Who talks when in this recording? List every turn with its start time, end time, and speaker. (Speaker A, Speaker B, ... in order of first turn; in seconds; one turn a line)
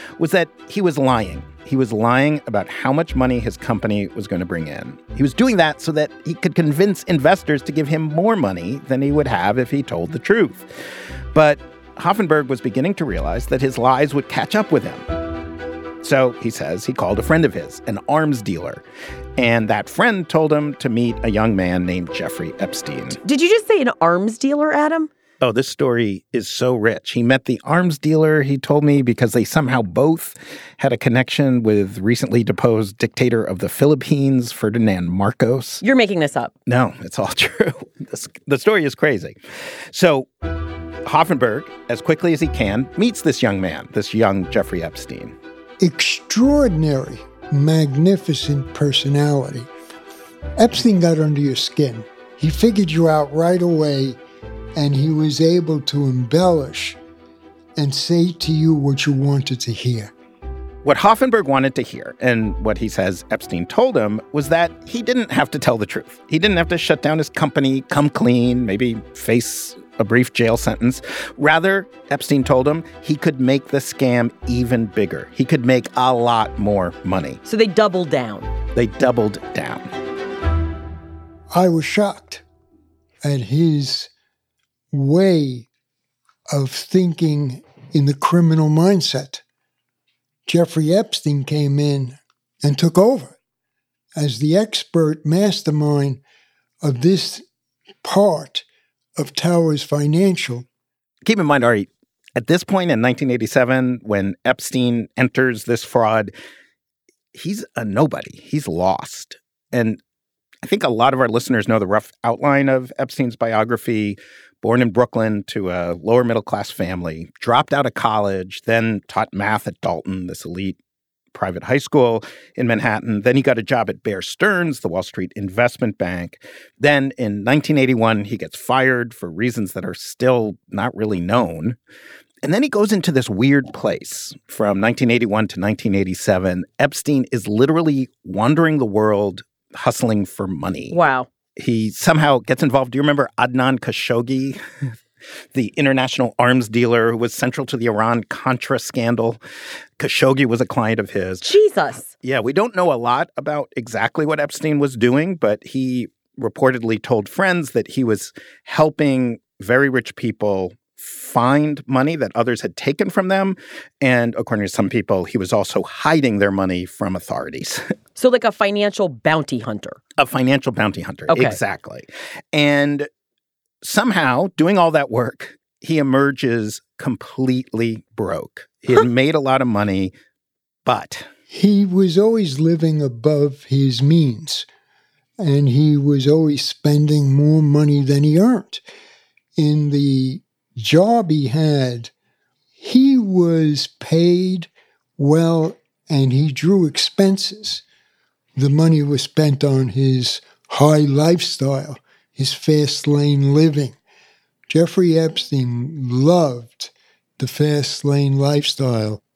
Speaker A: 0.2-10.7
Speaker A: 11.3-15.1
Speaker A: 16.0-18.8
Speaker A: 19.4-23.2
Speaker B: 23.2-25.1
Speaker A: 25.4-35.8
Speaker B: 35.8-36.5
Speaker A: 36.7-39.4
Speaker A: 39.9-40.3
Speaker A: 41.0-45.4
Speaker C: 45.8-49.7
Speaker C: 50.6-54.2
Speaker C: 54.8-57.0
Speaker C: 57.8-60.1
Speaker A: 60.8-77.4
Speaker B: 77.5-78.5
Speaker A: 78.8-79.9
Speaker C: 81.5-82.4
Speaker C: 83.2-84.1
Speaker C: 84.9-85.7
Speaker C: 86.5-89.4
Speaker C: 90.5-93.3
Speaker C: 94.2-96.2
Speaker C: 96.8-97.5
Speaker C: 98.0-98.7
Speaker C: 99.2-100.7
Speaker A: 101.2-106.3
Speaker A: 107.3-110.0
Speaker A: 110.6-120.8
Speaker A: 121.3-131.8
Speaker A: 132.4-141.0
Speaker B: 140.9-141.3
Speaker A: 141.6-144.6
Speaker A: 145.5-149.4
Speaker A: 150.0-151.5
Speaker B: 151.4-152.1
Speaker A: 152.2-167.8
Speaker B: 168.2-170.0
Speaker A: 170.2-173.1
Speaker B: 171.3-171.6
Speaker A: 173.8-180.1
Speaker A: 180.8-181.3
Speaker C: 181.5-184.7
Speaker C: 185.4-188.8
Speaker C: 189.6-192.1
Speaker C: 192.8-197.8
Speaker C: 198.6-204.0
Speaker C: 204.7-209.2